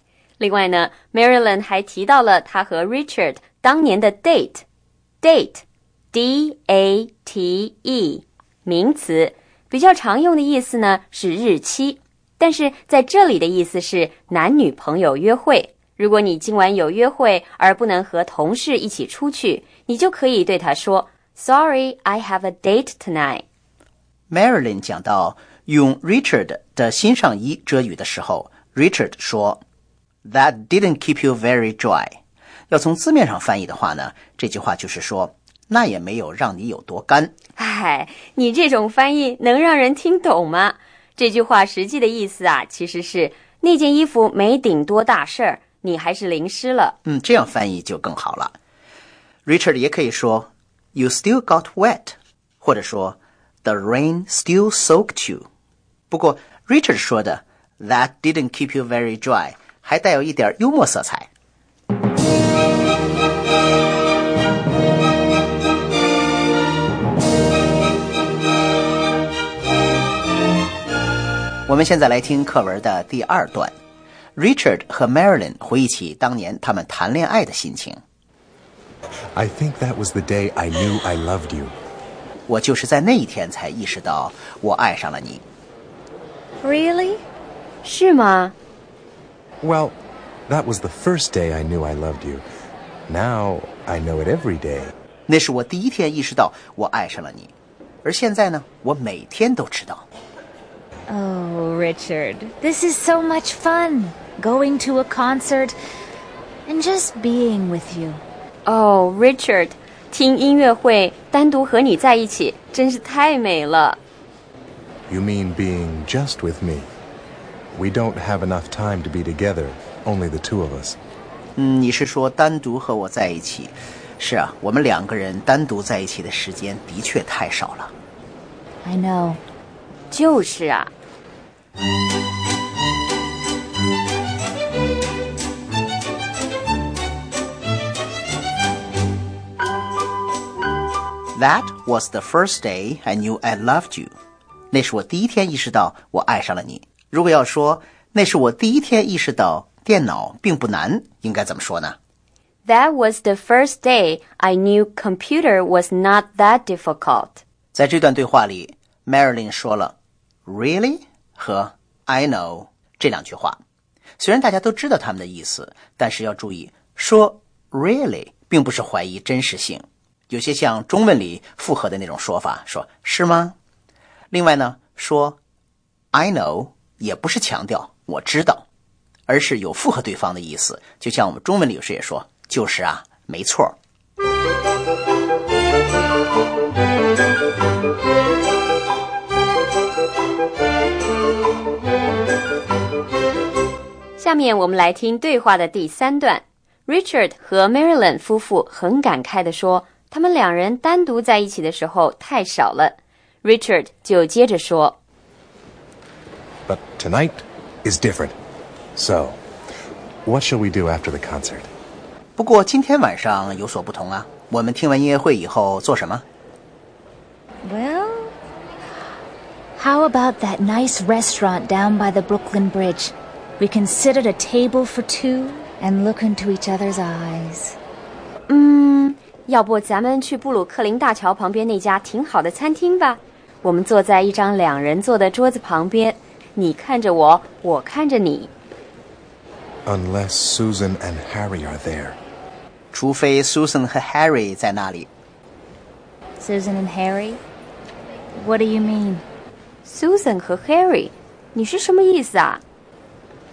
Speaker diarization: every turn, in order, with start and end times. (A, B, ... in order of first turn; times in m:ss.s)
0:00.4-0:04.6 A
0:05.2-0:23.4 A
0:24.3-0:29.6 B
0:30.2-0:37.3 B
0:37.6-0:47.0 A
0:47.0-0:48.6 B
0:49.5-0:55.5 B
0:56.1-1:01.3 B
1:11.7-1:13.7 B
1:14.4-1:18.0 B
1:19.3-1:21.8 C
1:22.5-1:25.4 B
1:26.6-1:27.2 D
1:27.8-1:28.5 A
1:29.6-1:30.0 C
1:30.5-1:32.4 C
1:33.1-1:34.9 C
1:35.3-1:37.5 B
1:38.0-1:40.1 B
1:41.1-1:45.8 D
1:46.7-1:48.2 D
1:48.7-1:54.0 A
1:55.1-1:56.9 C
1:57.7-2:01.0 C
2:01.6-2:07.9 B
2:08.8-2:09.4 D
2:10.1-2:10.9 A
2:21.4-2:24.1 B
2:24.7-2:32.0 B
2:32.6-2:37.4 A
2:37.7-2:40.0 B
2:40.5-2:43.6 B
2:44.2-2:53.6 B
2:54.3-2:55.4 B
2:56.1-2:58.6 B
2:59.3-3:03.8 B
3:14.2-3:25.0 A
3:26.7-3:28.4 C
3:29.0-3:29.4 C
3:30.3-3:31.7 C
3:32.4-3:36.2 B
3:37.6-3:38.3 D
3:39.8-3:47.8 D
3:48.5-3:58.5 A
3:59.9-4:02.2 C
4:02.9-4:05.1 B
4:06.4-4:07.4 D
4:08.4-4:09.2 D
4:09.8-4:12.6 A